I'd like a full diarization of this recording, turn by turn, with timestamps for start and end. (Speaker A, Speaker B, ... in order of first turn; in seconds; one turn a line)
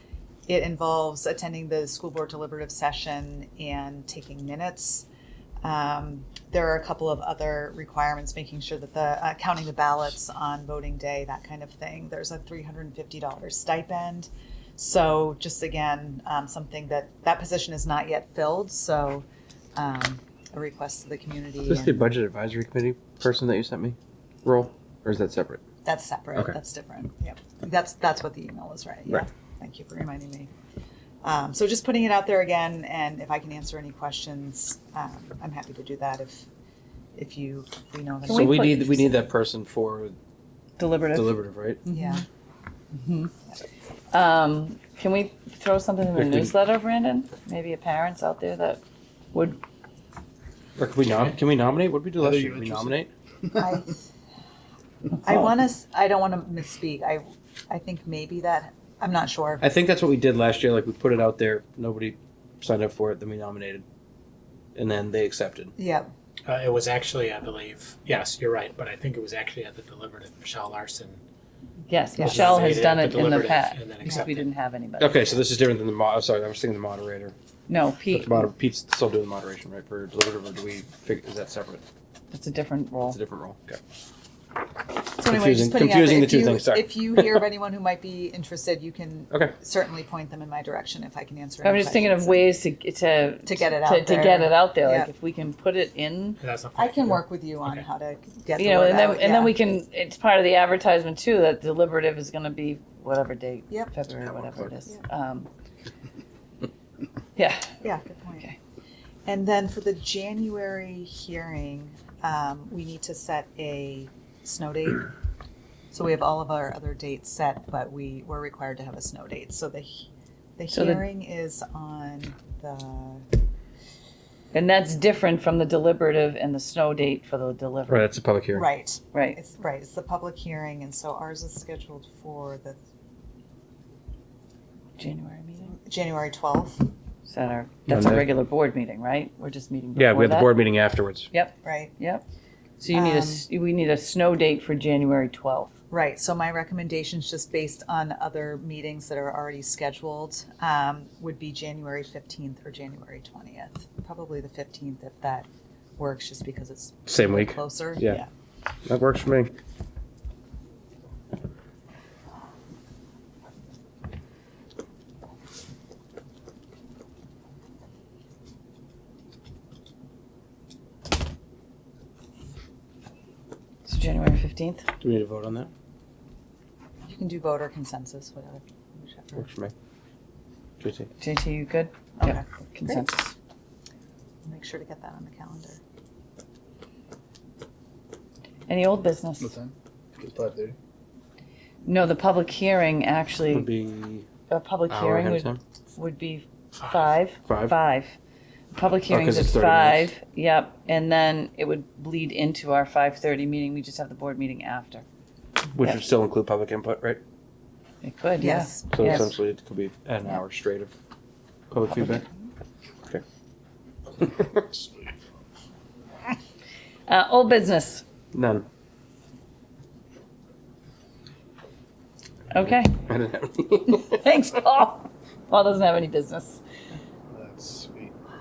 Speaker A: 0.5-5.1
Speaker A: 5.6-19.2
Speaker A: 19.8-22.0
Speaker B: 21.7-25.6
Speaker A: 25.9-30.5
Speaker A: 31.2-36.5
Speaker A: 37.1-39.0
Speaker C: 38.3-39.1
Speaker B: 38.3-40.1
Speaker C: 40.8-42.2
Speaker B: 41.1-41.8
Speaker A: 41.9-42.2
Speaker C: 42.9-43.3
Speaker C: 44.1-48.8
Speaker B: 46.1-46.5
Speaker C: 49.3-49.6
Speaker B: 50.8-53.1
Speaker D: 52.2-52.9
Speaker A: 53.5-54.0
Speaker A: 55.2-59.6
Speaker B: 59.6-63.9
Speaker B: 64.8-65.7
Speaker A: 65.8-66.1
Speaker E: 66.4-71.2
Speaker C: 71.9-75.4
Speaker A: 72.2-72.8
Speaker E: 72.2-74.5
Speaker B: 75.0-77.3
Speaker C: 77.7-78.5
Speaker B: 78.1-81.8
Speaker C: 82.3-83.2
Speaker B: 83.1-83.8
Speaker A: 85.2-92.5
Speaker B: 85.2-87.4
Speaker C: 91.6-96.4
Speaker A: 93.4-95.1
Speaker E: 96.4-97.8
Speaker A: 96.8-99.5
Speaker C: 98.6-105.5
Speaker C: 107.3-107.8
Speaker A: 107.8-108.5
Speaker A: 109.2-115.1
Speaker A: 115.9-123.3
Speaker C: 120.7-121.1
Speaker C: 124.5-128.1
Speaker B: 127.9-128.7
Speaker A: 128.5-132.8
Speaker C: 129.1-129.4
Speaker C: 135.0-135.7
Speaker A: 135.7-136.9
Speaker C: 137.3-140.5
Speaker B: 137.9-138.2
Speaker B: 140.0-141.3
Speaker C: 141.3-142.2
Speaker A: 141.6-141.9
Speaker C: 142.8-145.7
Speaker A: 142.9-143.5
Speaker A: 145.9-158.3
Speaker B: 157.1-158.2
Speaker B: 158.9-159.5
Speaker C: 173.8-174.9
Speaker B: 175.0-175.7
Speaker A: 177.1-179.4
Speaker B: 179.4-179.7
Speaker B: 180.8-181.1
Speaker C: 181.2-183.3
Speaker A: 182.2-182.9
Speaker A: 184.4-185.8
Speaker C: 188.7-189.5
Speaker D: 189.4-190.8
Speaker C: 191.9-193.7
Speaker B: 193.5-194.3
Speaker C: 194.5-198.2
Speaker B: 194.9-195.6
Speaker E: 196.8-197.2
Speaker B: 197.5-197.8
Speaker C: 198.7-205.1
Speaker B: 199.1-200.1
Speaker B: 205.7-207.2
Speaker C: 208.0-209.3
Speaker A: 208.4-209.3
Speaker B: 208.9-210.9
Speaker B: 211.7-212.2
Speaker B: 214.2-214.9
Speaker C: 217.1-218.0
Speaker B: 218.3-218.7
Speaker C: 222.5-223.0
Speaker B: 223.0-224.2
Speaker C: 223.9-226.6
Speaker E: 227.3-228.1